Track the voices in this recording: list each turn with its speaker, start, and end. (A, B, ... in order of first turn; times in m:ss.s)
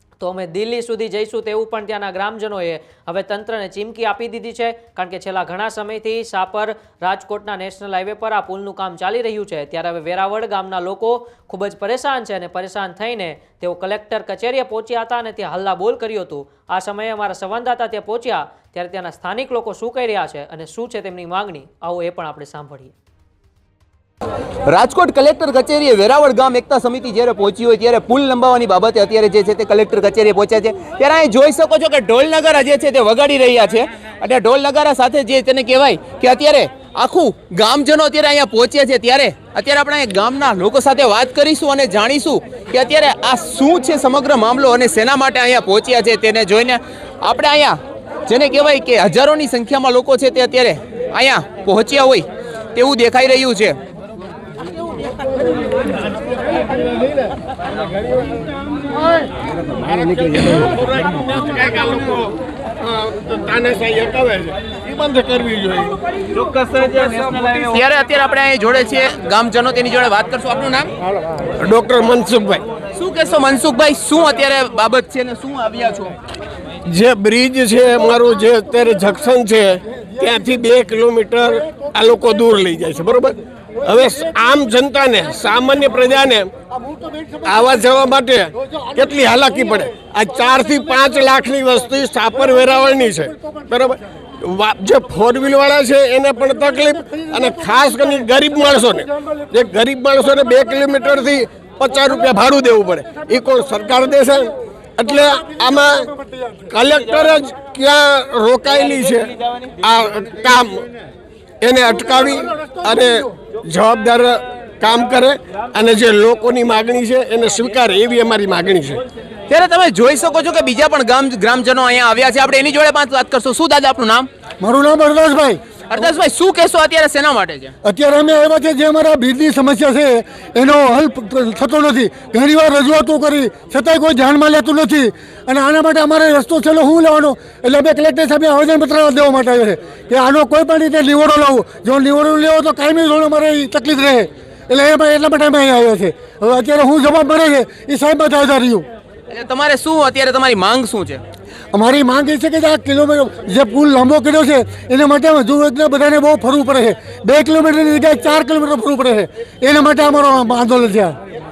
0:00.2-0:23.0 A
0:24.7-0:53.8 B
0:59.8-1:06.0 C
1:06.5-1:10.9 B
1:11.6-1:12.6 C
1:12.9-1:16.2 B
1:16.9-1:26.5 C
1:26.7-1:27.8 D
1:27.5-1:46.1 C
1:28.6-1:29.1 D
1:37.0-1:37.5 D
1:46.1-1:46.7 D
1:46.7-1:50.9 C
1:51.6-1:59.0 C
1:59.5-2:04.3 B
2:04.6-2:05.6 D
2:05.9-2:07.7 B
2:07.8-2:28.9 D
2:29.3-2:31.2 B
2:31.7-2:41.2 D